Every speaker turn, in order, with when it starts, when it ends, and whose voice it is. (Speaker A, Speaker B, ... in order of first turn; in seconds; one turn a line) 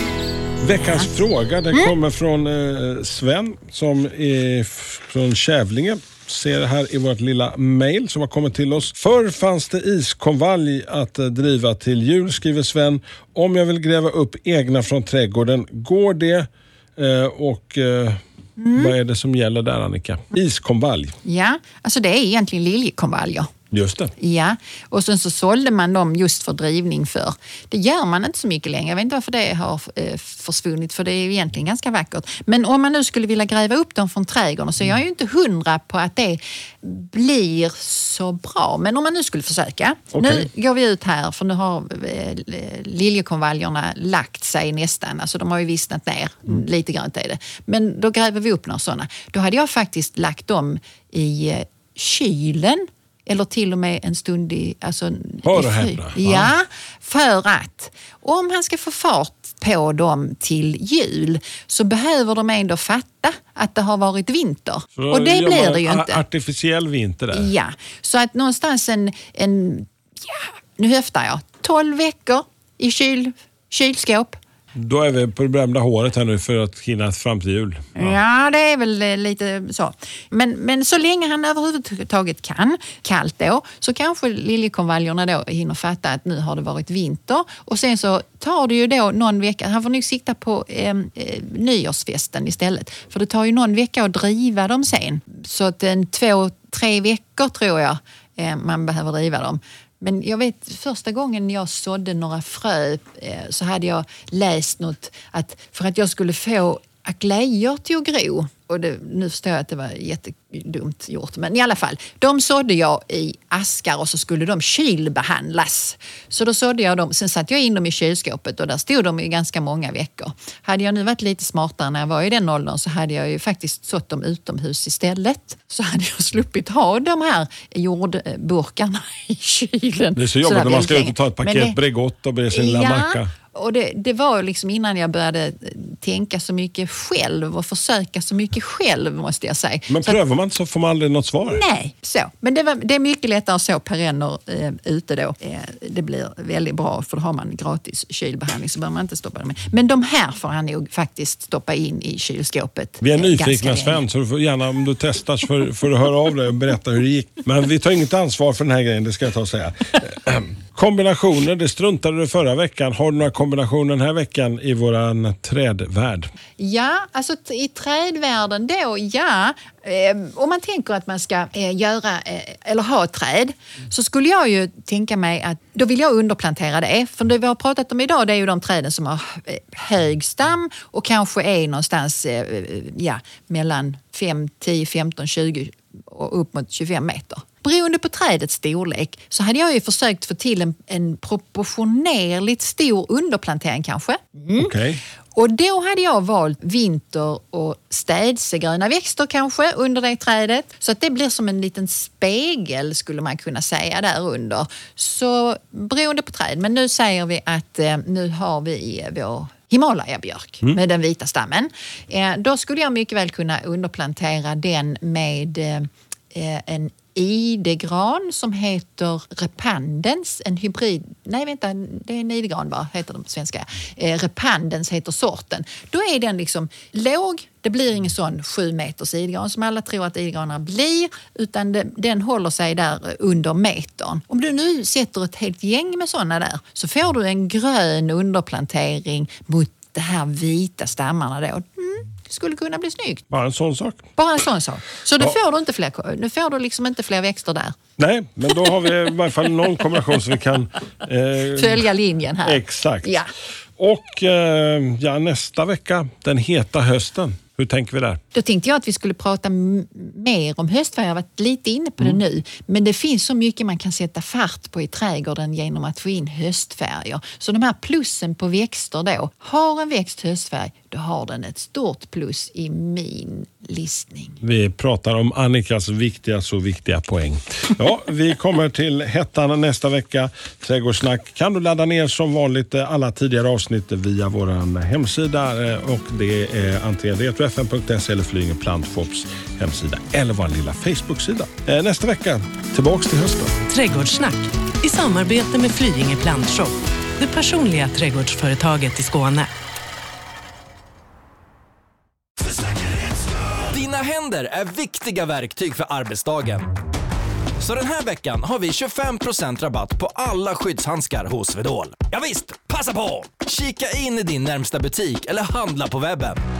Speaker A: 0.6-18.2
Speaker B: 18.6-18.9
Speaker A: 18.7-21.2
Speaker B: 21.2-23.5
Speaker A: 23.7-24.1
Speaker B: 24.2-66.2
Speaker A: 40.1-40.5
Speaker A: 55.4-56.5
Speaker A: 65.0-67.5
Speaker B: 67.3-74.4
Speaker A: 74.7-78.2
Speaker B: 78.0-131.8
Speaker A: 130.2-133.3
Speaker B: 132.5-140.2
Speaker A: 139.9-141.6
Speaker B: 141.4-154.0
Speaker A: 153.0-166.3
Speaker B: 166.6-194.8
Speaker A: 194.6-195.0
Speaker B: 195.3-243.2
Speaker A: 243.3-244.1
Speaker B: 244.2-247.8
Speaker A: 248.0-251.9
Speaker B: 251.5-253.3
Speaker A: 252.4-253.1
Speaker A: 253.8-258.2
Speaker B: 258.3-274.4
Speaker A: 274.4-293.5
Speaker C: 293.7-299.5
Speaker D: 303.7-306.7
Speaker D: 307.6-316.4